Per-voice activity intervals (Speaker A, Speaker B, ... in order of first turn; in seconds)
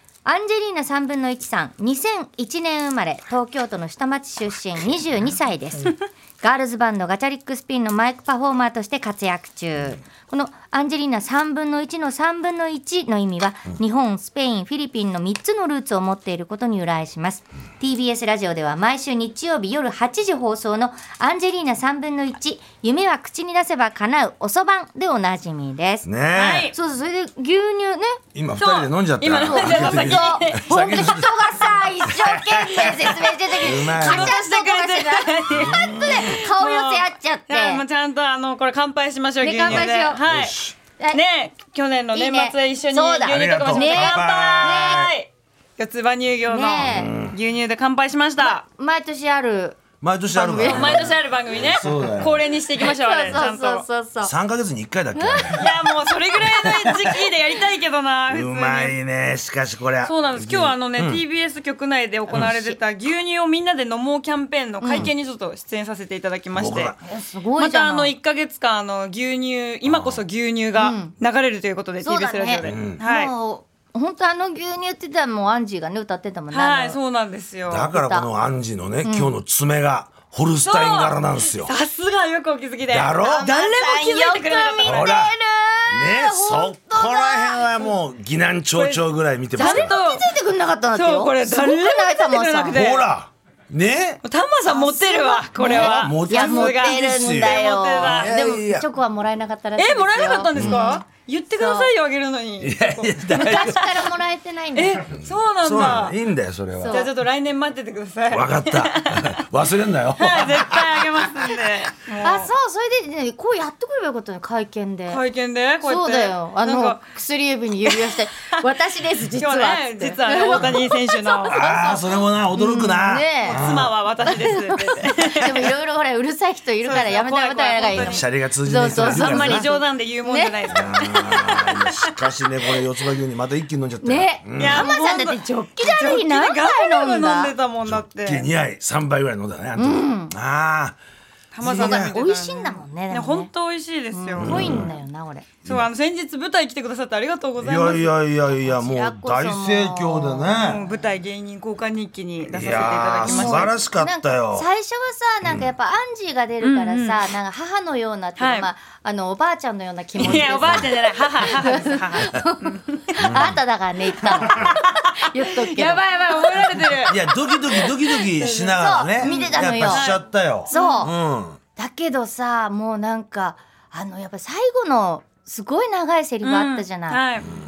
Speaker A: 0.2-26.1, 26.7-28.2, 29.4-37.8, 39.4-40.2, 42.1-45.1, 46.5-47.2, 48.4-51.1, 52.8-54.3, 55.1-55.9, 62.3-62.8, 64.8-65.1, 67.0-68.1, 70.8-71.1, 72.0-77.0, 77.8-78.3, 79.0-79.4, 83.2-87.9, 89.6-92.9, 94.7-101.9, 103.3-105.1, 106.8-107.1, 112.2-115.2, 115.8-123.7, 124.2-130.9, 134.0-137.5, 139.8-140.3, 141.7-143.5, 144.1-145.5, 148.5-150.9, 153.2-170.2, 170.7-171.2, 171.8-177.2
Speaker B: 26.1-26.7, 28.3-34.3, 35.5-36.5, 39.7-40.8, 43.3-45.1, 46.8-47.4, 50.0-52.5, 54.2-55.7, 56.4-57.3, 58.3-61.2, 66.5-67.0, 69.8-70.2, 72.6-73.0, 77.7-81.7, 82.9-83.5, 84.8-85.3, 85.9-89.9, 92.7-94.2, 95.7-98.9, 100.5-100.9, 102.6-104.0, 105.2-107.0, 108.3-111.4, 121.4-123.9, 128.0-129.7, 130.7-134.9, 137.8-141.0, 141.6-142.1, 144.4-144.9, 147.6-150.8, 152.5-154.7, 155.4-155.7, 160.2-160.9, 163.2-163.6, 164.5-164.7, 167.1-171.6
Speaker C: 26.4-26.8, 28.6-31.2, 33.9-40.6, 41.1-48.6, 50.6-53.9, 55.5-59.0, 60.0-67.0, 67.6-73.3, 76.5-77.9, 80.6-85.1, 88.8-89.0, 89.6-90.3, 90.9-93.0, 94.2-98.3, 99.8-103.8, 104.8-106.2, 106.9-109.4, 110.2-112.5, 115.1-117.0, 117.9-118.7, 119.3-121.6, 123.4-125.8, 126.8-128.2, 128.8-132.3, 134.6-138.5, 141.5-144.9, 145.7-148.1, 150.6-153.7, 156.6-157.3, 158.4-158.7, 160.2-163.1, 164.3-167.2, 168.4-171.1, 176.4-177.5